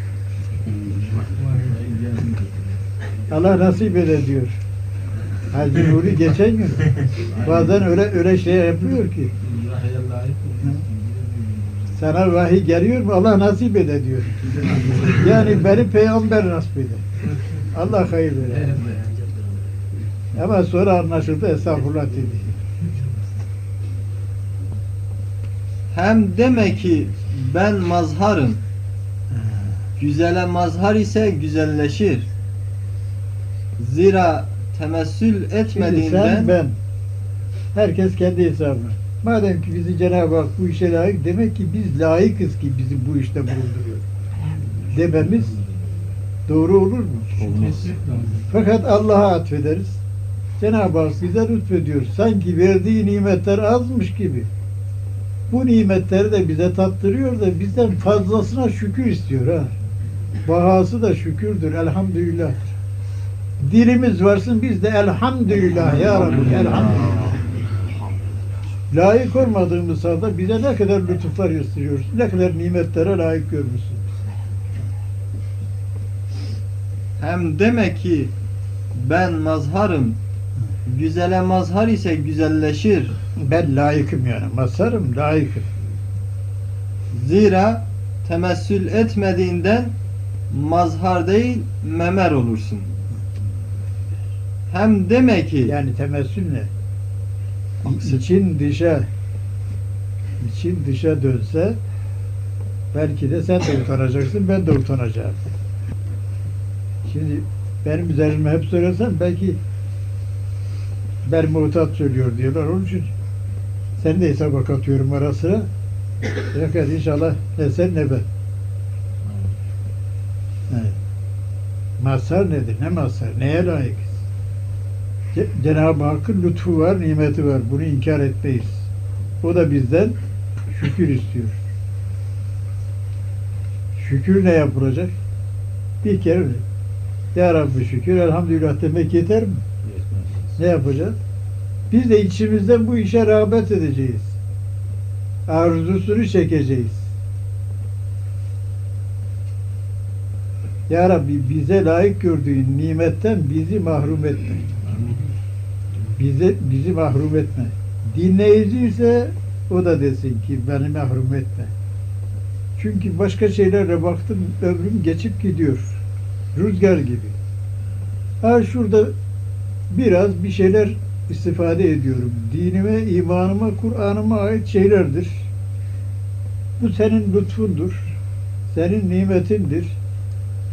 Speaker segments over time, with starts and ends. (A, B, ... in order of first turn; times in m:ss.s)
0:00.7-0:02.8 A
0:03.3-0:04.6 B
0:05.5-0:06.9 B
0:07.2-0:07.8 A
0:07.4-0:09.3 B
0:09.4-0:12.0 A
0:12.0-0:17.0 B
0:14.6-0:15.3 A
0:17.7-0:18.8 B
0:18.5-0:19.5 A
0:20.4-0:22.6 B
0:25.9-0:28.6 C
0:29.3-0:29.8 B
0:30.0-0:32.3 C
0:33.8-0:36.6 C
0:35.7-0:36.8 B
0:37.7-0:44.1 B
0:44.5-0:46.2 A
0:44.9-0:45.6 B
0:46.5-0:47.4 B
0:47.4-0:48.5 A
0:48.5-0:50.0 B
0:50.6-0:54.5 B
0:55.5-0:59.7 B
1:00.4-1:02.7 B
1:03.6-1:07.4 B
1:08.9-1:14.1 B
1:17.2-1:18.3 C
1:18.9-1:20.2 C
1:20.9-1:23.2 C
1:23.4-1:25.7 B
1:27.1-1:30.0 C
1:30.5-1:32.9 C
1:34.7-1:35.8 C
1:35.6-1:36.7 B
1:37.8-1:39.1 B
1:40.4-1:41.8 B
1:42.9-1:45.4 B
1:47.0-1:49.6 B
1:51.2-1:53.1 B
1:54.0-1:55.7 B
1:56.5-1:58.3 B
1:59.2-1:59.6 A
2:00.7-2:01.0 B
2:02.0-2:04.2 B
2:05.3-2:08.9 B
2:09.4-2:10.2 B
2:10.7-2:11.6 B
2:14.0-2:15.1 B
2:16.0-2:16.6 B
2:17.3-2:19.6 B
2:19.8-2:20.6 A
2:20.6-2:21.2 B
2:21.9-2:24.4 B
2:25.5-2:27.1 B
2:30.9-2:34.6 B
2:34.8-2:35.3 A
2:36.2-2:41.7 B
2:42.8-2:46.0 B
2:46.6-2:47.4 B
2:48.4-2:49.1 B
2:49.9-2:55.5 B
2:56.8-2:58.2 B
2:58.7-3:00.0 B